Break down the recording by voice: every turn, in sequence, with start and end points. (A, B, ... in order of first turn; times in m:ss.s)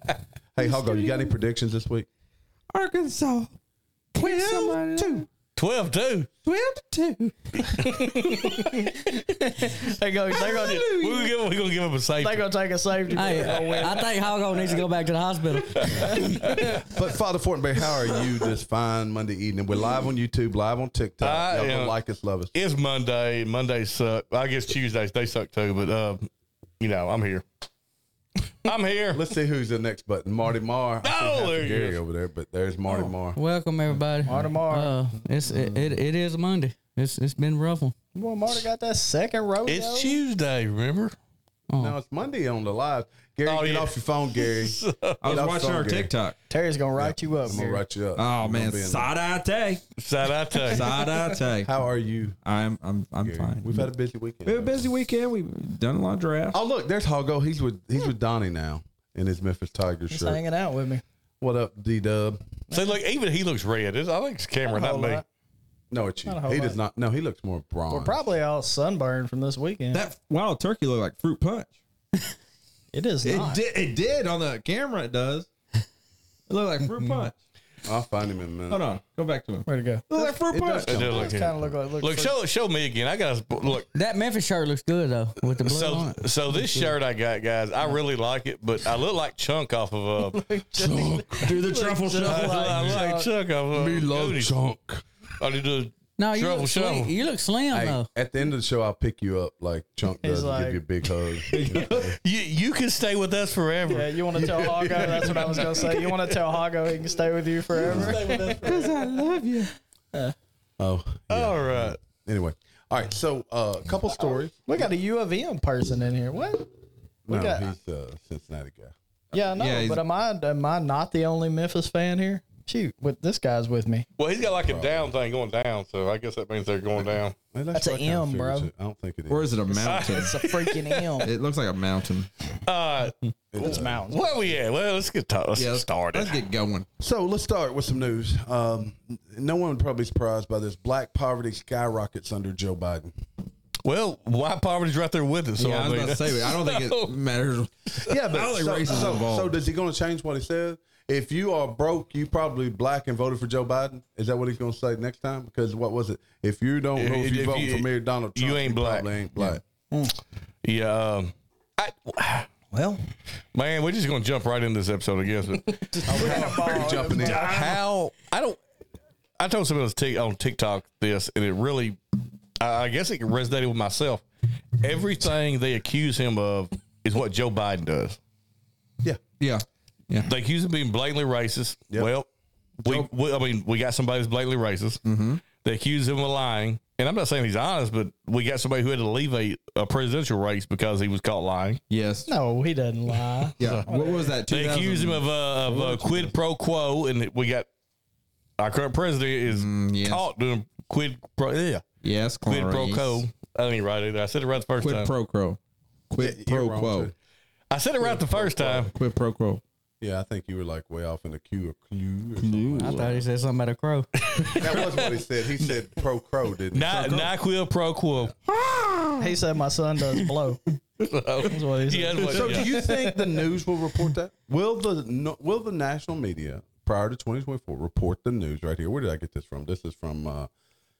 0:00.6-0:02.1 A
0:00.6-0:01.3 B
0:02.7-0:03.5 B
0:04.2-0:05.3 B
0:04.2-0:05.3 C
0:05.6-0:06.3 D
0:06.5-0:07.3 B
0:07.6-0:08.9 D
0:08.0-0:10.9 E
0:10.4-0:11.3 B
0:10.5-0:12.4 D
0:12.2-0:14.8 E
0:13.1-0:16.9 C
0:13.3-0:13.7 D
0:15.8-0:16.8 D
0:16.7-0:22.5 A
0:21.2-0:22.0 D
0:22.5-0:26.3 D
0:26.8-0:27.4 D
0:28.6-0:29.2 D
0:29.1-0:33.4 A
0:31.0-0:32.0 D
0:33.4-0:37.9 C
0:34.2-0:34.9 E
0:35.5-0:35.8 A
0:38.2-0:40.1 E
0:39.7-0:41.2 D
0:41.7-0:42.0 C
0:41.8-0:46.1 A
0:43.5-0:45.2 D
0:45.2-0:46.4 B
0:46.5-0:47.8 E
0:47.0-0:49.1 A
0:48.2-0:49.8 B
0:50.0-0:50.9 D
0:50.5-0:51.7 B
0:51.6-0:52.4 A
0:52.4-0:53.9 B
0:53.2-0:54.8 A
0:54.4-0:56.6 B
0:56.5-1:00.4 A
1:00.1-1:01.0 E
1:01.4-1:02.4 A
1:02.7-1:03.0 E
1:02.7-1:05.2 D
1:04.7-1:05.2 E
1:05.9-1:08.2 A
1:06.3-1:06.8 E
1:07.9-1:10.1 E
1:09.9-1:11.7 B
1:12.9-1:13.6 E
1:13.2-1:15.5 B
1:16.5-1:17.4 B
1:17.8-1:18.8 A
1:18.7-1:21.1 B
1:19.7-1:20.3 E
1:20.2-1:21.7 A
1:20.8-1:23.9 D
1:20.9-1:22.3 E
1:23.9-1:26.2 C
1:25.6-1:30.4 D
1:30.2-1:33.3 E
1:30.8-1:31.6 A
1:31.4-1:33.0 B
1:32.2-1:34.6 D
1:33.7-1:35.0 A
1:35.4-1:37.1 D
1:36.2-1:38.1 C
1:37.7-1:42.2 A
1:40.2-1:40.8 E
1:41.5-1:42.2 B
1:42.2-1:45.9 D
1:43.9-1:48.6 E
1:44.7-1:45.8 A
1:47.8-1:48.8 D
1:47.9-1:48.2 A
1:48.5-1:49.7 B
1:50.8-1:54.6 A
1:51.3-1:52.0 D
1:54.7-1:56.7 E
1:57.3-1:58.9 A
1:57.3-1:57.7 E
1:59.3-2:04.1 E
1:59.5-2:00.0 B
2:04.2-2:07.4 D
2:04.6-2:05.1 A
2:07.5-2:09.6 A
2:07.7-2:08.7 E
2:09.3-2:10.4 B
2:09.7-2:11.1 D
2:09.8-2:11.3 E
2:11.2-2:12.3 B
2:12.6-2:16.4 D
2:13.5-2:14.1 A
2:13.6-2:14.5 E
2:15.6-2:16.9 B
2:17.0-2:23.1 A
2:23.8-2:27.1 D
2:25.6-2:29.6 B
2:28.1-2:39.6 A
2:37.0-2:39.1 D
2:40.6-2:42.5 D
2:42.7-2:43.0 E
2:43.5-2:48.6 D
2:45.8-2:47.8 E
2:46.1-2:47.6 A
2:49.4-2:52.0 D
2:52.6-2:54.2 D
2:54.8-2:58.2 D
2:59.4-3:00.3 B
3:00.2-3:02.3 D
3:02.8-3:05.0 D
3:05.0-3:05.4 B
3:05.6-3:11.8 D
3:11.9-3:12.3 B
3:12.3-3:14.4 E
3:13.6-3:16.3 B
3:13.6-3:13.9 D
3:14.5-3:17.7 D
3:18.6-3:21.9 D
3:19.5-3:20.3 B
3:22.0-3:23.2 B
3:22.5-3:25.1 D
3:24.8-3:25.6 B
3:26.1-3:27.1 B
3:26.2-3:27.1 A
3:27.7-3:28.9 D
3:28.0-3:28.9 A
3:28.7-3:29.6 B
3:30.0-3:33.1 A
3:32.4-3:33.0 B
3:32.8-3:34.1 C
3:32.9-3:33.2 D
3:34.2-3:35.1 D
3:34.5-3:37.3 A
3:36.7-3:38.3 D
3:38.5-3:39.4 B
3:39.2-3:40.6 E
3:41.0-3:42.9 D
3:41.5-3:43.0 E
3:42.2-3:50.5 A